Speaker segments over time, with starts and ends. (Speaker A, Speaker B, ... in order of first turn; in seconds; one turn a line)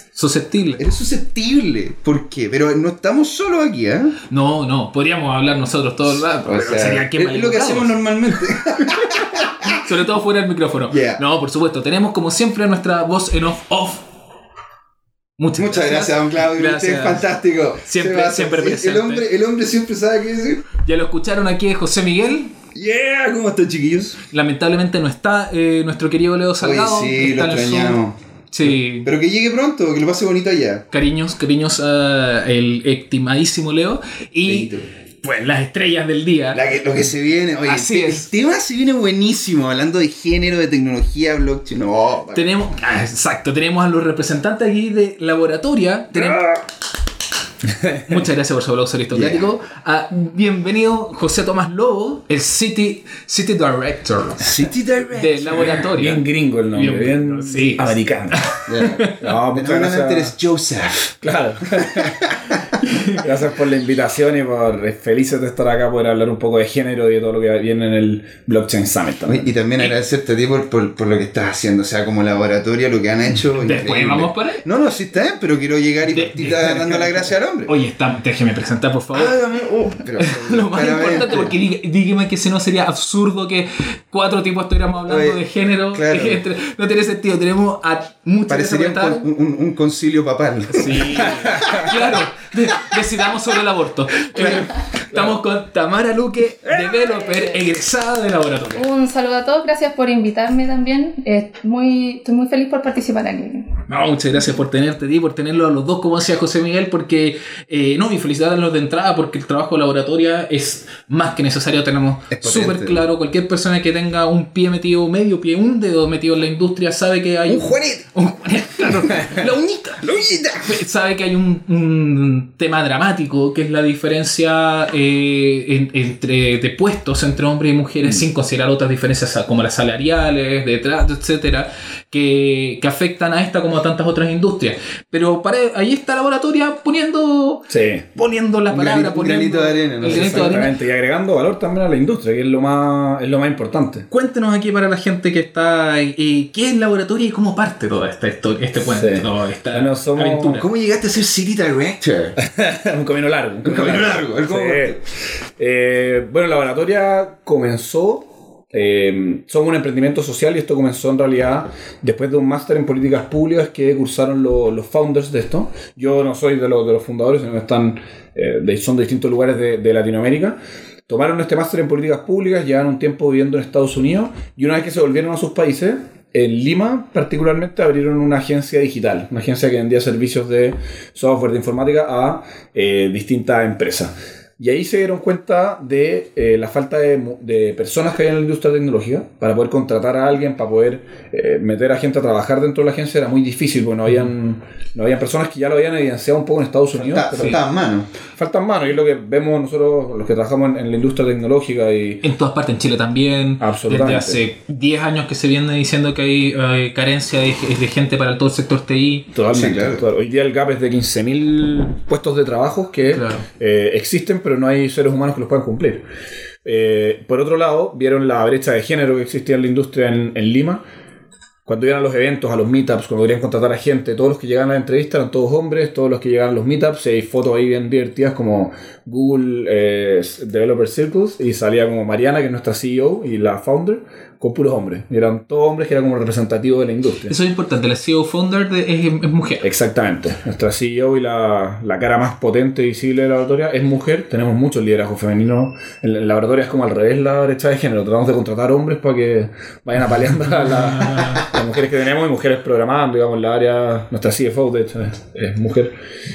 Speaker A: 0.1-0.8
Speaker B: 0.8-4.2
Speaker A: 4.3-14.1
Speaker B: 6.5-9.9
Speaker B: 10.9-11.2
Speaker A: 15.4-17.3
Speaker B: 15.6-20.7
Speaker A: 17.9-19.3
Speaker A: 20.8-22.5
Speaker B: 22.7-24.2
Speaker A: 24.3-28.0
Speaker B: 26.6-28.2
Speaker A: 28.5-29.1
Speaker B: 29.0-30.9
Speaker A: 30.9-34.7
Speaker B: 34.5-34.9
Speaker A: 35.2-36.8
Speaker B: 36.5-42.5
Speaker A: 37.6-38.3
Speaker A: 42.3-46.4
Speaker B: 46.1-46.6
Speaker C: 47.9-48.1
Speaker A: 48.0-59.1
Speaker B: 49.1-49.5
Speaker B: 54.4-55.9
Speaker C: 55.8-58.5
Speaker B: 58.7-61.1
Speaker C: 59.1-60.3
Speaker C: 61.2-62.3
Speaker B: 61.7-62.7
Speaker A: 62.8-63.2
Speaker C: 63.2-69.5
Speaker B: 69.3-77.7
Speaker A: 73.6-74.7
Speaker A: 76.1-79.4
Speaker B: 79.1-81.6
Speaker A: 80.2-89.3
Speaker B: 85.1-85.4
Speaker B: 85.9-86.4
Speaker B: 88.5-92.2
Speaker A: 90.7-98.8
Speaker C: 91.3-91.9
Speaker D: 98.8-103.8
Speaker A: 103.9-140.7
Speaker B: 112.3-113.0
Speaker B: 117.5-118.0
Speaker B: 118.8-119.5
Speaker B: 120.0-120.8
Speaker C: 137.7-138.1
Speaker B: 138.7-140.6
Speaker C: 140.0-144.1
Speaker A: 144.1-150.7
Speaker C: 148.8-150.7
Speaker B: 150.5-152.3
Speaker C: 152.4-155.0
Speaker B: 153.6-155.0
Speaker C: 155.6-197.6
Speaker B: 197.0-198.1
Speaker C: 198.3-202.2
Speaker A: 202.2-209.3
Speaker C: 203.6-204.4
Speaker C: 209.3-216.1
Speaker B: 209.5-210.0
Speaker A: 213.1-213.4
Speaker C: 216.7-220.8
Speaker C: 221.7-237.3
Speaker A: 237.3-239.6
Speaker C: 239.6-256.0
Speaker A: 250.7-251.5